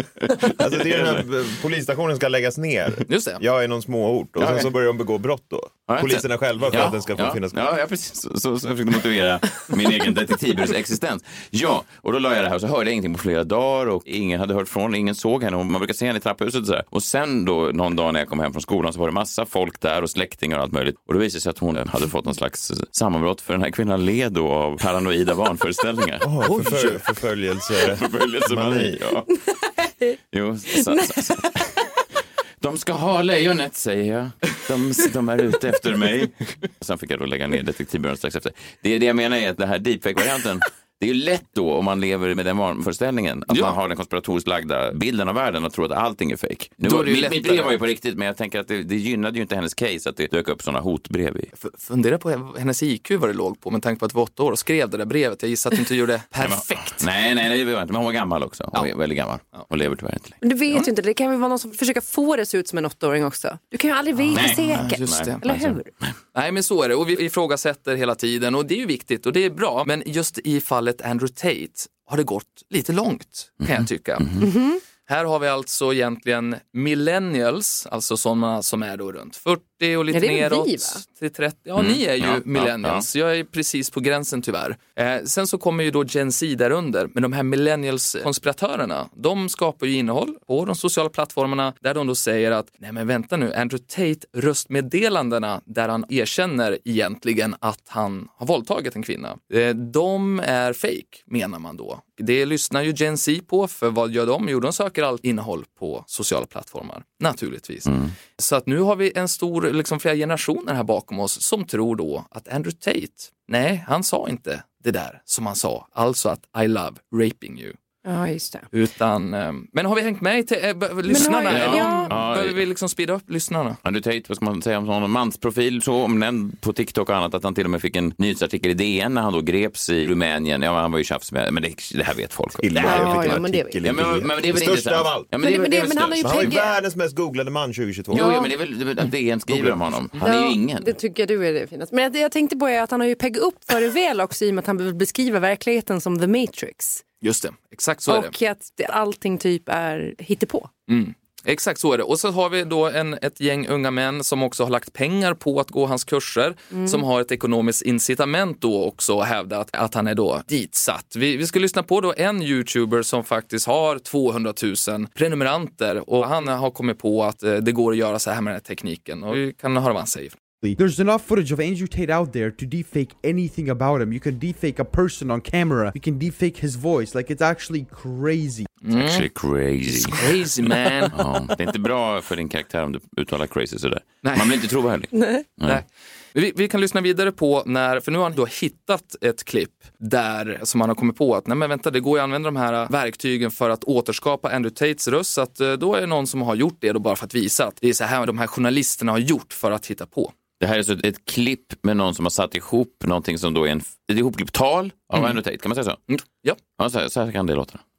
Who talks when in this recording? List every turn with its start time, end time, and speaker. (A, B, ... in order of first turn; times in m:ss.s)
0:00.3-0:07.6 A
0:03.1-0:03.4 B
0:04.4-0:04.7 C
0:05.9-0:27.0 C
0:26.2-0:29.0 A
0:27.8-0:29.3 C
0:30.3-0:31.6 C
0:30.8-0:31.5 D
0:32.6-0:51.5 C
0:43.5-0:43.8 B
0:46.8-0:47.8 B
0:51.6-0:57.1 B
0:56.4-1:00.4 C
1:00.4-1:05.9 D
1:04.3-1:05.4 B
1:04.3-1:06.2 C
1:06.4-1:14.5 B
1:13.6-1:14.4 C
1:14.4-1:14.8 D
1:15.0-1:57.8 B
1:20.1-1:21.0 D
1:21.8-1:23.0 C
1:47.9-1:48.1 C
1:58.0-1:58.7 D
1:58.7-2:03.8 B
2:01.1-2:02.1 D
2:01.2-2:02.6 C
2:03.8-2:16.6 C
2:12.6-2:15.3 A
2:12.8-2:13.8 D
2:15.4-2:16.8 D
2:16.2-2:18.4 A
2:18.1-2:21.0 C
2:18.1-2:18.5 D
2:19.5-2:19.8 A
2:20.2-2:27.0 D
2:27.2-2:28.3 B
2:28.1-2:30.7 D
2:30.9-2:50.4 B
2:36.7-2:37.0 D
2:50.7-2:58.7 E
2:58.8-2:59.3 B
2:58.9-3:05.8 C
2:59.9-3:01.2 B
3:04.2-3:04.6 B
3:05.2-3:05.4 D
3:05.6-3:20.3 B
3:20.6-3:26.0 C
3:26.1-3:26.6 B
3:26.8-3:27.8 C